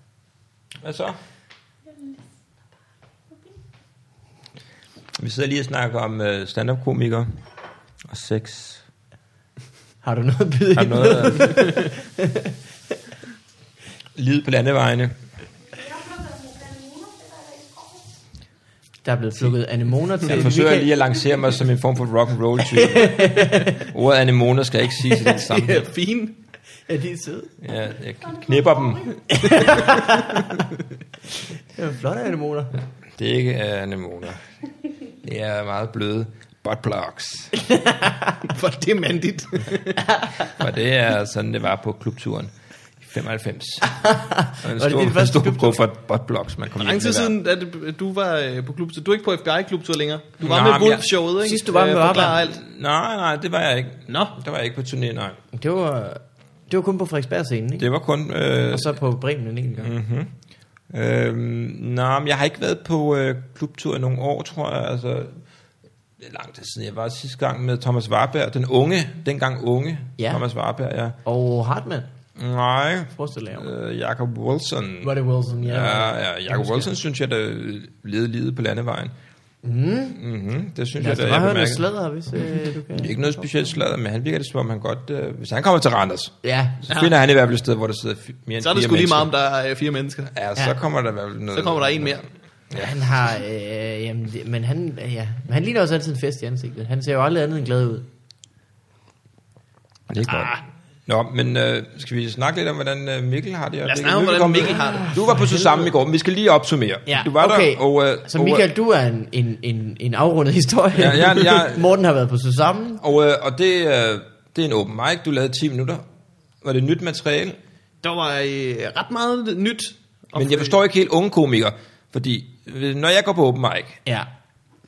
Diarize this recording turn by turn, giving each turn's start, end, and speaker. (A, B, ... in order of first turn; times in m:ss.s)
0:00.8-0:01.2 A
0:05.2-0:07.4 A
0:08.1-0:08.8 A
0:10.0-0:12.5 B
0:10.8-0:11.6 A
0:14.2-0:15.2 A
0:19.0-0:20.9 B
0:20.2-0:25.9 A
0:22.7-0:23.8 B
0:25.2-0:26.4 C
0:26.9-0:27.5 B
0:27.6-0:29.2 A
0:29.3-0:30.6 B
0:29.5-0:30.5 C
0:31.7-0:32.8 B
0:33.2-0:34.4 A
0:35.2-0:37.6 A
0:37.6-0:38.4 B
0:38.4-0:40.1 C
0:40.5-0:43.9 A
0:43.8-0:45.8 B
0:44.6-0:47.3 A
0:46.8-0:52.6 C
0:50.4-0:51.1 A
0:51.4-0:52.4 B
0:52.5-0:55.4 A
0:54.1-0:54.4 C
0:55.5-0:57.9 B
0:57.8-0:59.0 A
0:58.7-1:00.0 B
0:59.8-1:00.3 A
1:00.9-1:05.4 A
1:06.2-1:11.2 A
1:10.2-1:10.4 B
1:11.2-1:12.1 B
1:12.4-1:15.1 A
1:13.1-1:13.7 B
1:15.0-1:16.9 B
1:15.6-1:19.1 A
1:19.6-1:20.2 B
1:20.2-1:21.9 A
1:21.0-1:23.5 B
1:22.9-1:29.3 A
1:26.4-1:26.8 B
1:26.9-1:27.2 C
1:28.6-1:30.3 C
1:30.3-1:32.9 A
1:31.5-1:32.2 C
1:32.7-1:38.1 B
1:40.1-1:48.7 A
1:40.3-1:40.6 C
1:43.8-1:45.2 C
1:44.9-1:45.9 B
1:47.1-1:53.0 B
1:51.0-1:51.9 A
1:53.0-1:56.0 A
1:56.6-1:57.6 A
1:58.0-2:00.8 C
2:00.4-2:04.0 A